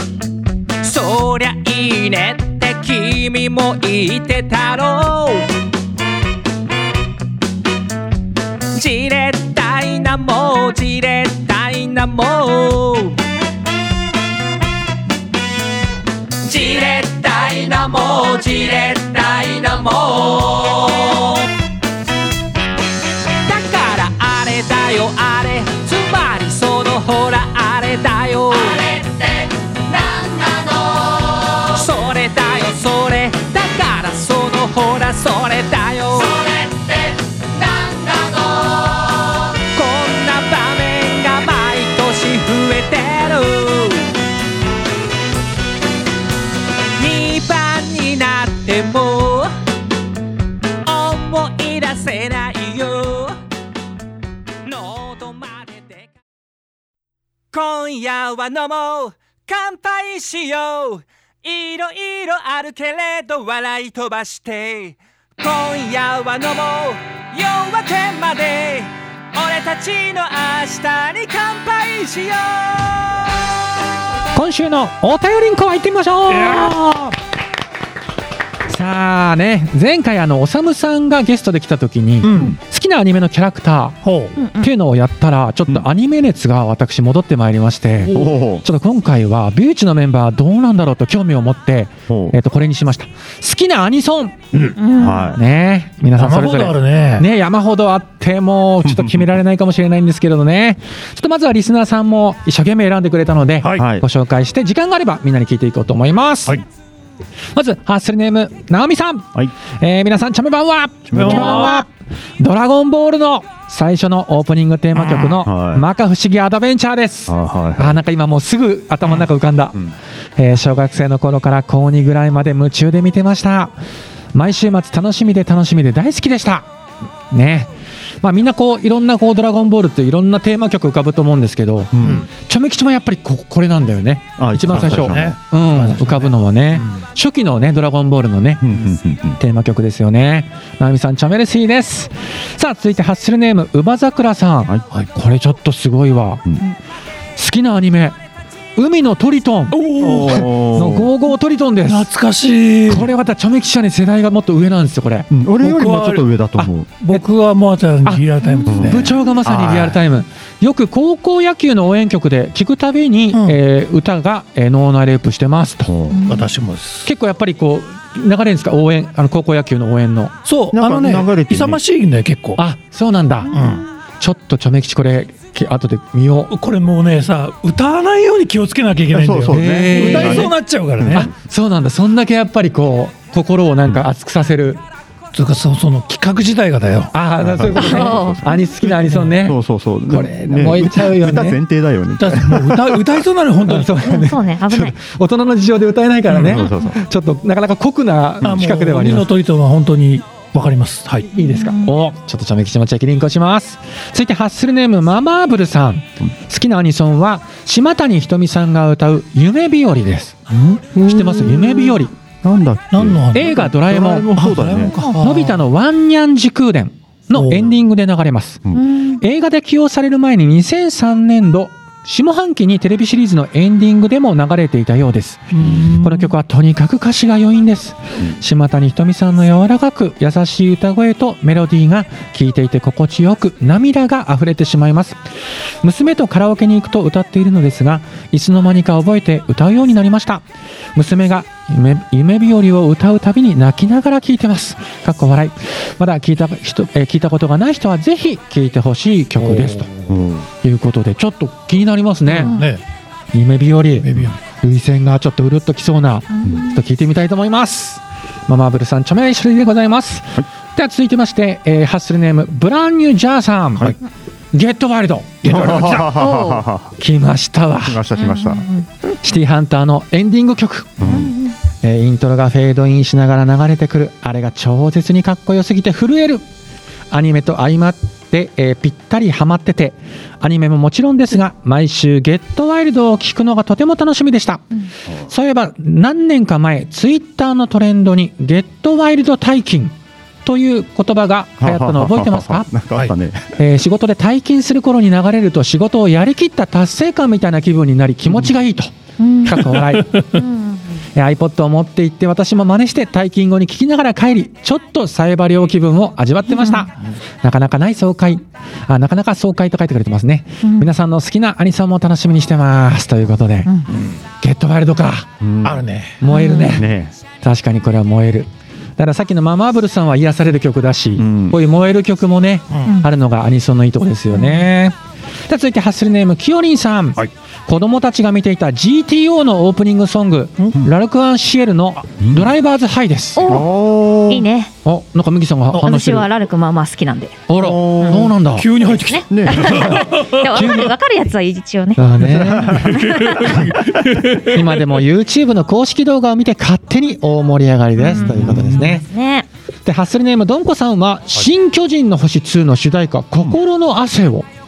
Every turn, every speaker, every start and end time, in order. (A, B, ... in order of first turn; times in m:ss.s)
0:00.8-0:05.5 A
0:08.7-0:13.2 A
0:16.4-0:21.4 A
0:23.4-0:44.1 A
0:47.0-0:49.5 A
0:50.8-0:53.4 A
0:54.6-0:56.1 A
0:57.5-1:13.1 A
1:14.3-1:17.2 B
1:16.3-1:16.8 C
1:18.7-1:24.0 B
1:22.2-1:22.6 C
1:24.0-1:24.3 C
1:24.4-1:24.7 D
1:24.6-1:34.4 B
1:28.1-1:28.6 E
1:32.1-1:32.4 E
1:34.8-1:35.4 D
1:35.0-1:35.4 E
1:35.4-1:46.6 B
1:36.2-1:37.3 C
1:38.8-1:39.3 E
1:43.6-1:43.9 C
1:43.7-1:44.0 E
1:47.6-1:59.8 B
1:51.1-1:51.5 E
1:51.1-1:51.8 C
1:55.1-1:55.8 E
1:57.3-1:58.0 E
2:00.4-2:03.8 B
2:04.3-2:06.7 B
2:07.3-2:07.7 B
2:08.2-2:18.6 B
2:11.9-2:12.3 E
2:14.4-2:15.4 E
2:14.7-2:16.4 C
2:18.6-2:19.4 E
2:19.4-2:26.4 B
2:27.4-2:28.2 B
2:28.8-2:32.1 B
2:29.7-2:30.5 C
2:30.0-2:31.1 E
2:31.9-2:33.1 C
2:32.9-2:35.3 B
2:35.3-2:36.9 E
2:35.6-2:36.3 C
2:36.6-2:37.2 B
2:36.9-2:39.1 C
2:38.7-2:40.0 E
2:38.8-2:45.9 B
2:43.3-2:43.6 C
2:45.8-2:46.2 E
2:46.1-2:46.5 D
2:46.2-2:47.1 C
2:47.0-2:50.3 B
2:50.4-2:52.6 C
2:50.7-2:51.8 E
2:52.6-2:53.5 B
2:53.5-2:53.8 D
2:53.5-2:53.8 C
2:54.2-2:56.5 B
2:56.5-3:01.3 C
2:59.1-3:01.3 E
2:59.5-3:00.5 B
3:01.1-3:04.8 B
3:05.3-3:07.1 C
3:07.1-3:11.6 B
3:07.4-3:08.4 E
3:07.8-3:08.6 D
3:09.0-3:13.0 E
3:12.2-3:14.0 C
3:13.7-3:19.3 B
3:14.0-3:15.0 D
3:16.3-3:17.0 E
3:18.4-3:21.3 C
3:21.3-3:32.1 B
3:21.4-3:21.9 D
3:30.9-3:31.4 C
3:32.4-3:35.0 E
3:32.9-3:35.6 C
3:33.3-3:34.3 B
3:35.2-3:38.6 B
3:37.3-3:37.7 C
3:38.8-3:39.2 D
3:39.2-3:55.2 B
3:45.5-3:46.3 C
3:55.8-4:00.4 B
4:01.0-4:09.9 B
4:10.1-4:10.5 E
4:10.6-4:12.6 B
4:12.3-4:12.8 C
4:13.3-4:23.9 B
4:14.0-4:14.3 C
4:16.3-4:16.7 D
4:24.5-4:25.5 B
4:25.4-4:26.2 C
4:25.4-4:26.9 E
4:26.1-4:26.6 D
4:27.0-4:28.0 B
4:27.8-4:28.7 E
4:28.2-4:28.9 D
4:29.2-4:31.0 B
4:31.0-4:31.3 E
4:31.0-4:31.5 D
4:31.8-4:36.4 B
4:37.1-4:52.7 B
4:51.6-4:53.5 E
4:53.6-5:00.4 B
4:59.2-4:59.7 D
4:59.7-5:00.4 C
5:00.3-5:01.0 D
5:01.2-5:06.9 B
5:06.5-5:06.9 D
5:07.4-5:13.7 B
5:10.6-5:10.9 D
5:14.4-5:15.3 B
5:15.4-5:15.8 E
5:15.6-5:16.2 C
5:16.2-5:16.9 B
5:16.3-5:16.8 D
5:16.7-5:17.1 E
5:17.4-5:33.6 B
5:21.2-5:21.6 E
5:24.3-5:24.7 D
5:32.2-5:32.5 E
5:33.4-5:33.7 D
5:33.4-5:34.5 E
5:34.3-5:34.7 D
5:34.8-5:36.3 B
5:35.8-5:43.5 D
5:37.5-5:38.7 B
5:37.5-5:38.3 E
5:38.5-5:40.6 C
5:39.3-5:39.9 E
5:39.6-5:40.9 B
5:42.0-5:43.0 B
5:42.3-5:44.8 C
5:44.3-5:49.1 B
5:48.0-5:49.5 D
5:48.3-5:48.8 E
5:49.8-5:54.5 B